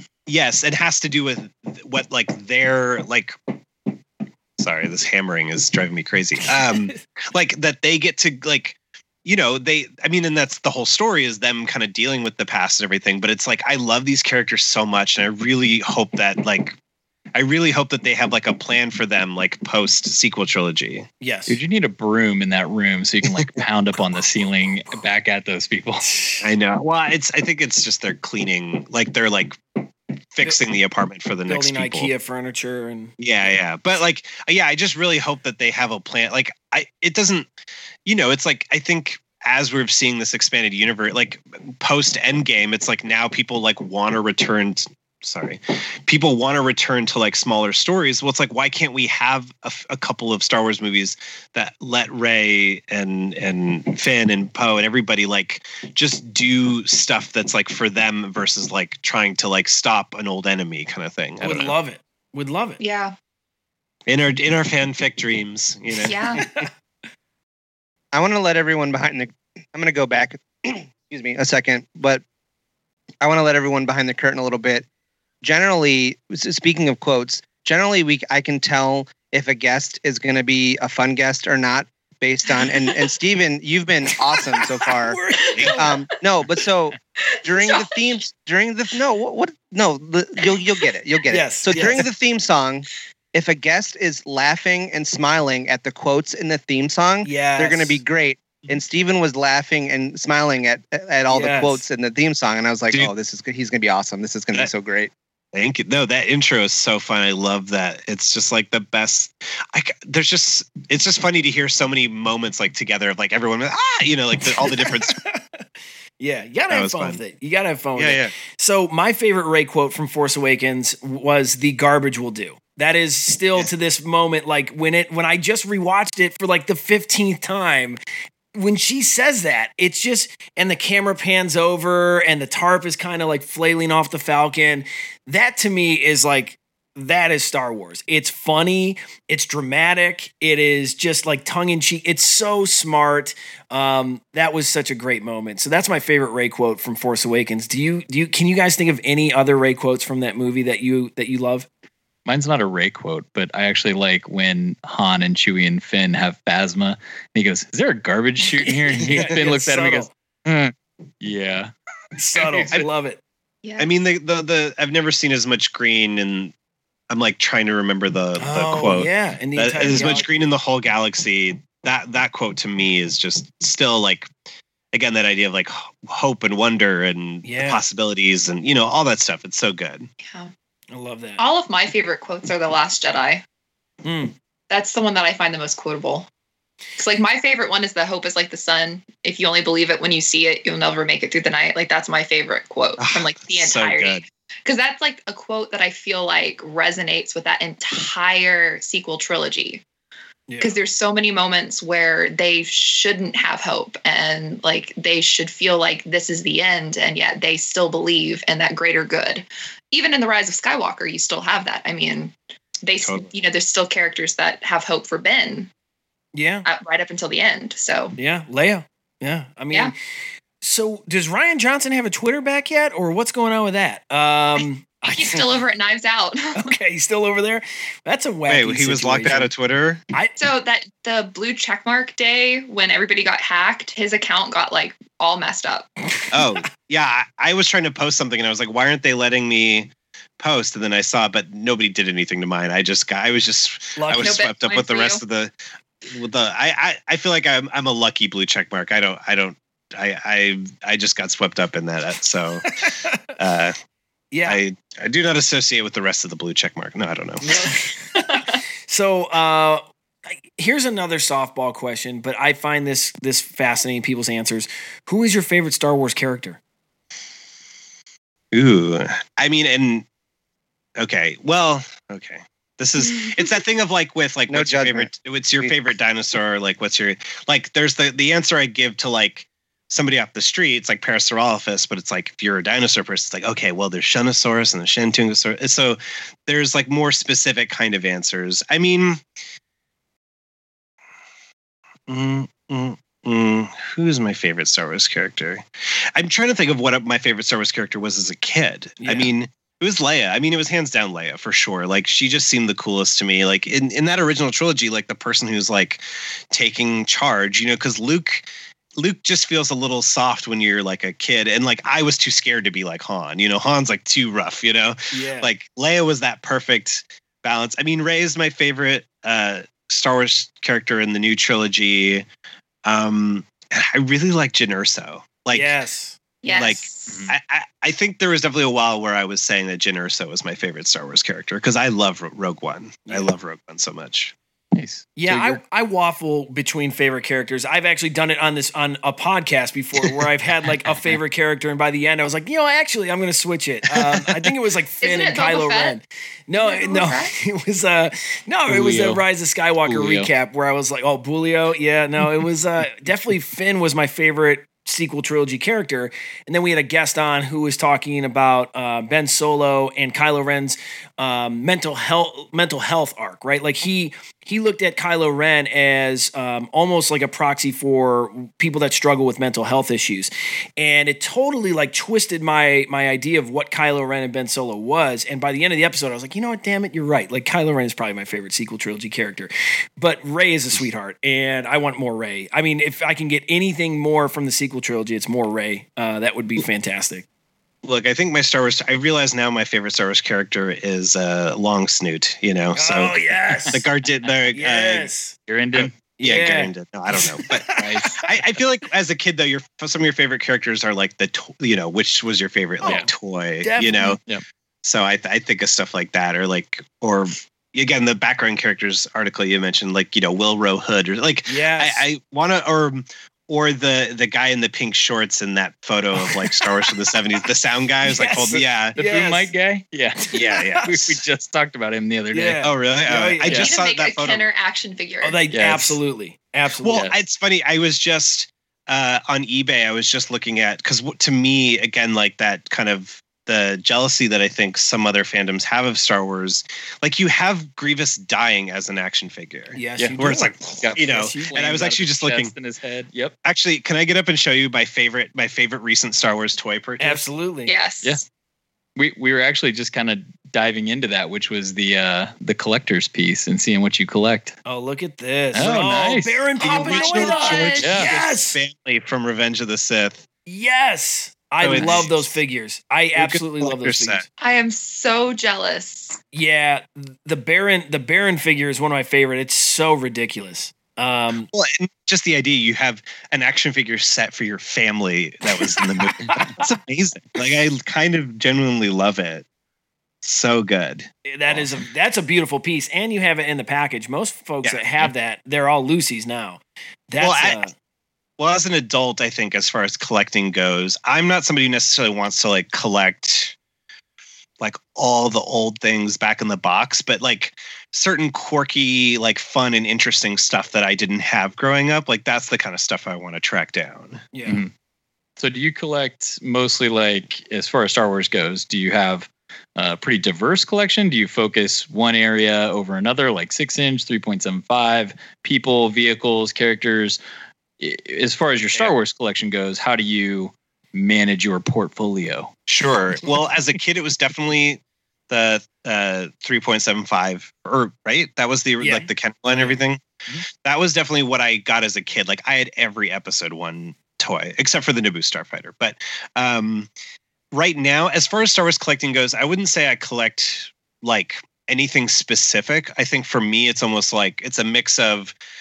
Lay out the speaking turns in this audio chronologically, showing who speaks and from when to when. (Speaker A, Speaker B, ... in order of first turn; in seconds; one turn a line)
Speaker A: 0.3-3.4
Speaker A: 4.6-16.8
Speaker A: 17.3-21.1
Speaker B: 21.2-21.6
Speaker C: 21.5-26.0
Speaker A: 23.2-23.6
Speaker B: 26.0-26.5
Speaker A: 26.4-29.6
Speaker A: 30.3-32.1
Speaker B: 31.4-33.1
Speaker A: 33.2-37.5
Speaker A: 38.0-61.7
Speaker B: 61.4-62.8
Speaker D: 62.8-63.1
Speaker A: 64.1-66.2
Speaker D: 66.0-66.4
Speaker B: 66.4-66.7
Speaker E: 68.1-72.2
Speaker E: 73.2-74.8
Speaker E: 75.4-85.2
Speaker D: 82.5-82.9
Speaker B: 84.9-85.9
Speaker E: 85.8-105.1
Speaker D: 87.2-88.2
Speaker B: 91.3-92.0
Speaker B: 97.2-98.0
Speaker B: 101.3-101.8
Speaker A: 105.5-115.2
Speaker B: 114.6-115.6
Speaker B: 116.2-128.0
Speaker A: 116.7-117.2
Speaker A: 118.0-118.3
Speaker B: 128.5-151.7
Speaker C: 152.2-161.7
Speaker B: 159.0-160.1
Speaker B: 162.2-163.2
Speaker C: 162.4-162.7
Speaker D: 163.6-163.9
Speaker A: 163.8-166.5
Speaker A: 167.1-174.3
Speaker B: 168.4-170.3
Speaker A: 174.9-180.1
Speaker B: 177.4-177.8
Speaker D: 180.2-180.5
Speaker B: 180.9-181.4
Speaker D: 181.4-183.4
Speaker B: 184.0-184.3
Speaker D: 184.7-186.3
Speaker D: 187.0-199.8
Speaker A: 193.0-194.2
Speaker D: 200.6-215.7
Speaker B: 216.3-216.7
Speaker D: 216.6-218.1
Speaker B: 218.2-219.9
Speaker B: 220.6-225.4
Speaker D: 225.1-226.5
Speaker B: 226.6-229.5
Speaker A: 228.5-230.0
Speaker D: 230.4-235.9
Speaker B: 236.2-236.5
Speaker A: 236.3-252.6
Speaker B: 243.9-244.4
Speaker D: 244.1-245.2
Speaker B: 252.8-253.2
Speaker A: 253.4-253.8
Speaker B: 254.3-254.6
Speaker A: 254.4-257.4
Speaker B: 257.4-258.2
Speaker B: 258.9-266.6
Speaker A: 268.5-270.0
Speaker A: 271.0-289.2
Speaker D: 273.0-273.6
Speaker E: 274.5-275.1
Speaker A: 292.1-322.2
Speaker B: 299.0-299.3
Speaker B: 315.1-315.5
Speaker A: 322.8-325.8
Speaker B: 325.5-326.2
Speaker D: 326.4-327.2
Speaker A: 326.5-334.3
Speaker C: 327.1-327.3
Speaker C: 334.7-335.6
Speaker B: 335.1-387.2
Speaker C: 340.9-341.2
Speaker C: 343.9-344.4
Speaker D: 345.0-346.0
Speaker D: 346.6-347.3
Speaker C: 348.7-349.2
Speaker C: 349.8-350.3
Speaker A: 387.8-393.2
Speaker B: 392.7-393.8
Speaker A: 393.7-395.1
Speaker B: 394.5-395.3
Speaker C: 395.5-395.9
Speaker A: 395.7-404.2
Speaker B: 396.2-396.7
Speaker B: 397.4-397.8
Speaker C: 397.8-398.2
Speaker B: 403.6-404.2
Speaker A: 404.8-418.9
Speaker B: 411.4-412.1
Speaker B: 418.0-419.5
Speaker C: 418.9-422.6
Speaker B: 420.2-420.8
Speaker A: 420.3-421.1
Speaker B: 422.3-423.6
Speaker A: 422.6-424.5
Speaker D: 423.6-425.4
Speaker B: 425.2-427.0
Speaker C: 425.5-426.0
Speaker A: 426.8-442.5
Speaker C: 426.9-427.1
Speaker B: 439.7-441.7
Speaker C: 440.0-443.3
Speaker A: 443.4-447.2
Speaker B: 447.0-447.7
Speaker D: 447.6-448.2
Speaker C: 448.9-454.6
Speaker B: 454.6-458.6
Speaker C: 455.5-456.4
Speaker A: 456.6-460.2
Speaker D: 456.9-457.9
Speaker C: 457.8-458.1
Speaker B: 460.4-464.2
Speaker A: 461.6-462.4
Speaker C: 461.7-462.1
Speaker A: 463.1-464.2
Speaker D: 464.4-466.2
Speaker B: 466.3-471.5
Speaker A: 471.5-479.4
Speaker A: 480.2-481.6
Speaker B: 481.2-487.7
Speaker A: 487.2-487.6
Speaker A: 488.4-493.5
Speaker A: 494.6-504.2
Speaker B: 504.3-504.6
Speaker C: 504.4-504.7
Speaker C: 505.4-517.2
Speaker C: 517.8-522.5
Speaker A: 522.7-536.9
Speaker B: 528.8-529.7
Speaker A: 537.5-545.3